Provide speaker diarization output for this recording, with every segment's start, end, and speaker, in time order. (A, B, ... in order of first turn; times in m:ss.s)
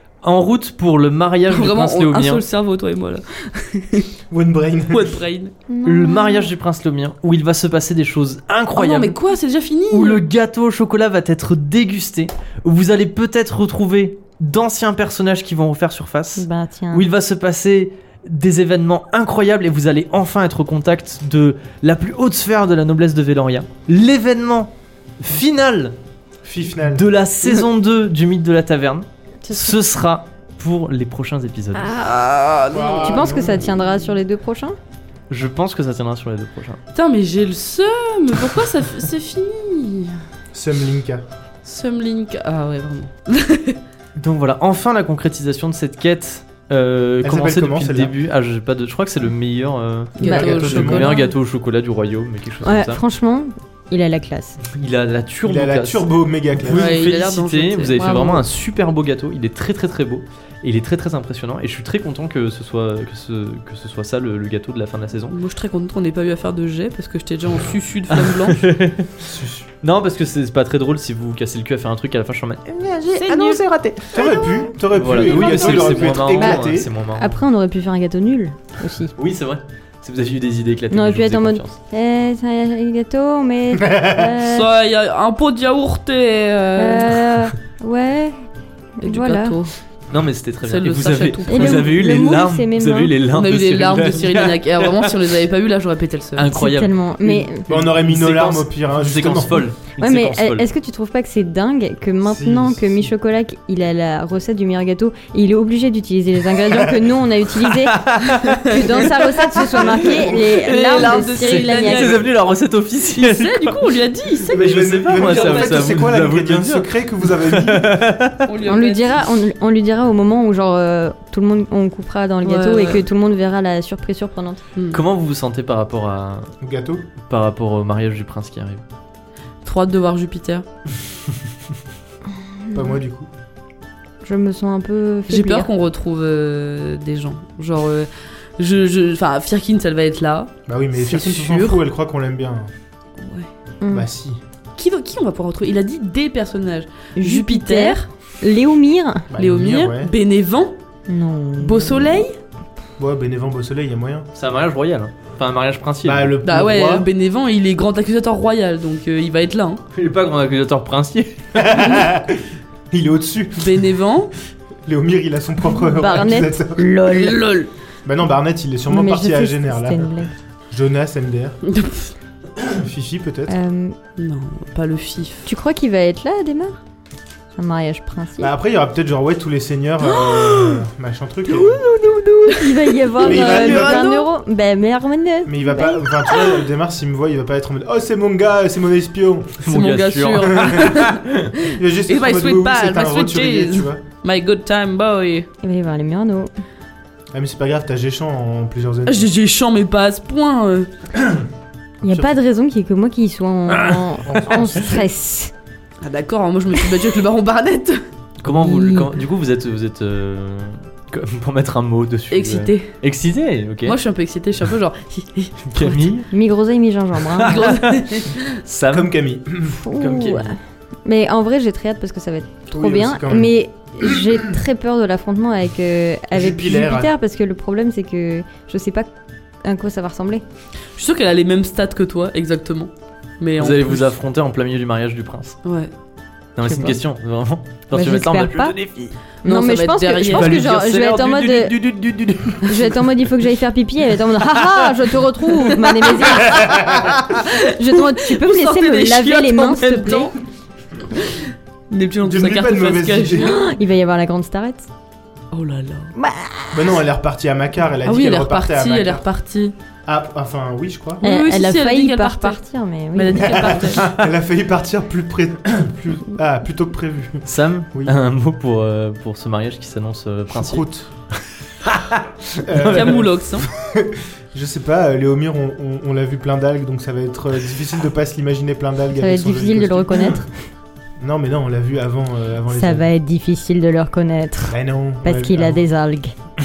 0:00.2-0:02.4 A
0:01.5-0:04.1 B
0:04.3-0:05.2 C
0:04.9-0:05.5 B
0:05.7-0:06.5 D
0:05.8-0:09.2 A
0:08.8-0:10.2 B
0:09.9-0:26.0 A
0:16.4-0:17.1 D
0:26.4-0:27.1 C
0:26.9-0:31.9 A
0:29.4-0:29.8 D
0:31.8-0:34.1 B
0:32.7-0:33.7 C
0:33.0-0:34.8 D
0:35.3-0:36.8 A
0:36.9-0:40.2 B
0:40.5-0:41.2 C
0:41.6-0:43.8 B
0:44.2-0:53.0 A
0:47.2-0:48.1 C
0:50.2-0:51.3 B
0:50.2-0:51.3 D
0:50.2-0:51.2 C
0:52.6-0:54.6 D
0:54.8-1:05.4 A
0:55.4-0:56.9 C
0:56.7-0:58.4 B
0:58.0-0:58.4 D
1:05.3-1:08.6 B
1:08.1-1:09.3 A
1:09.3-1:09.7 C
1:09.8-1:14.2 A
1:13.2-1:13.6 B
1:14.1-1:16.9 C
1:14.2-1:14.7 D
1:14.9-1:17.4 A
1:15.2-1:19.1 D
1:19.2-1:21.8 A
1:20.9-1:24.7 D
1:23.7-1:24.3 C
1:24.4-1:27.3 B
1:26.8-1:28.4 D
1:29.0-1:29.6 D
1:29.0-1:29.7 B
1:30.1-1:35.1 A
1:30.7-1:31.9 B
1:31.5-1:33.1 D
1:33.3-1:36.5 B
1:36.4-1:36.9 A
1:36.5-1:37.7 D
1:37.2-1:39.7 C
1:37.7-1:40.7 A
1:40.0-1:48.0 D
1:42.2-1:43.1 C
1:47.8-1:49.3 A
1:48.6-1:52.2 D
1:48.7-1:52.2 B
1:50.7-1:53.8 A
1:53.2-1:54.6 B
1:54.5-1:58.0 C
1:54.5-1:58.5 A
1:55.1-1:55.9 B
1:58.4-1:59.2 B
1:58.6-2:04.6 D
2:02.4-2:03.0 B
2:04.9-2:06.5 A
2:06.6-2:07.0 C
2:07.2-2:08.8 A
2:09.6-2:10.6 B
2:12.7-2:13.0 D
2:12.7-2:13.3 C
2:14.2-2:15.7 D
2:15.3-2:21.8 B
2:20.7-2:22.7 C
2:23.2-2:23.5 B
2:23.8-2:24.1 D
2:23.9-2:24.4 C
2:24.8-2:28.1 B
2:27.2-2:29.3 D
2:29.3-2:30.1 C
2:29.4-2:30.8 B
2:31.1-2:32.3 D
2:31.6-2:32.4 B
2:33.0-2:34.3 C
2:34.3-2:36.4 A
2:36.0-2:37.1 C
2:36.4-2:39.8 B
2:39.9-2:41.8 A
2:41.6-2:43.8 C
2:43.6-2:44.3 B
2:44.9-2:46.9 C
2:45.8-2:47.4 D
2:47.0-2:47.7 B
2:48.0-2:50.1 C
2:48.9-2:50.3 D
2:50.7-2:51.6 C
2:51.7-2:52.1 B
2:52.6-2:53.6 C
2:53.5-2:54.0 D
2:54.2-2:55.5 B
2:55.5-2:56.8 D
2:57.6-2:58.5 D
2:58.4-3:01.8 C
3:00.0-3:00.8 B
3:01.5-3:04.3 B
3:02.5-3:06.5 D
3:03.2-3:04.1 C
3:05.4-3:09.6 C
3:09.6-3:11.5 A
3:09.7-3:15.5 B
3:10.6-3:10.9 C
3:11.7-3:14.0 C
3:15.6-3:16.5 D
3:17.3-3:19.3 C
3:19.1-3:20.9 B
3:22.0-3:22.4 C
3:22.0-3:25.5 D
3:23.8-3:25.0 C
3:26.0-3:28.0 B
3:28.4-3:34.0 A
3:28.5-3:29.1 D
3:32.3-3:32.9 B
3:33.8-3:36.1 B
3:35.7-3:36.3 A
3:36.3-3:37.7 D
3:37.3-3:39.1 A
3:37.4-3:38.4 B
3:38.9-3:39.8 C
3:39.7-3:40.5 D
3:39.9-3:40.6 A
3:41.0-3:49.1 D
3:42.7-3:44.2 C
3:46.3-3:47.1 C
3:49.6-3:50.4 D
3:51.0-3:54.1 B
3:53.6-3:55.6 A
3:55.6-3:55.9 B
3:56.6-3:59.2 A
3:56.6-3:57.0 D
3:57.9-3:58.8 D
3:59.4-4:00.6 B
3:59.4-4:01.7 D
4:00.2-4:03.0 A
4:02.6-4:10.3 D
4:05.8-4:10.3 B
4:06.5-4:07.2 C
4:11.2-4:13.6 B
4:12.2-4:13.7 C
4:13.4-4:14.9 D
4:15.5-4:16.1 B
4:16.2-4:16.9 D
4:16.7-4:19.2 C
4:18.0-4:19.7 B
4:20.1-4:21.2 C
4:21.2-4:22.6 B
4:21.2-4:23.8 D
4:23.2-4:24.1 B
4:23.3-4:28.2 C
4:27.4-4:30.8 A
4:30.5-4:31.1 C
4:31.8-4:33.0 A
4:32.6-4:40.4 C
4:32.8-4:33.7 B
4:39.2-4:40.6 D
4:41.2-4:43.1 C
4:42.7-4:46.3 D
4:44.7-4:45.8 C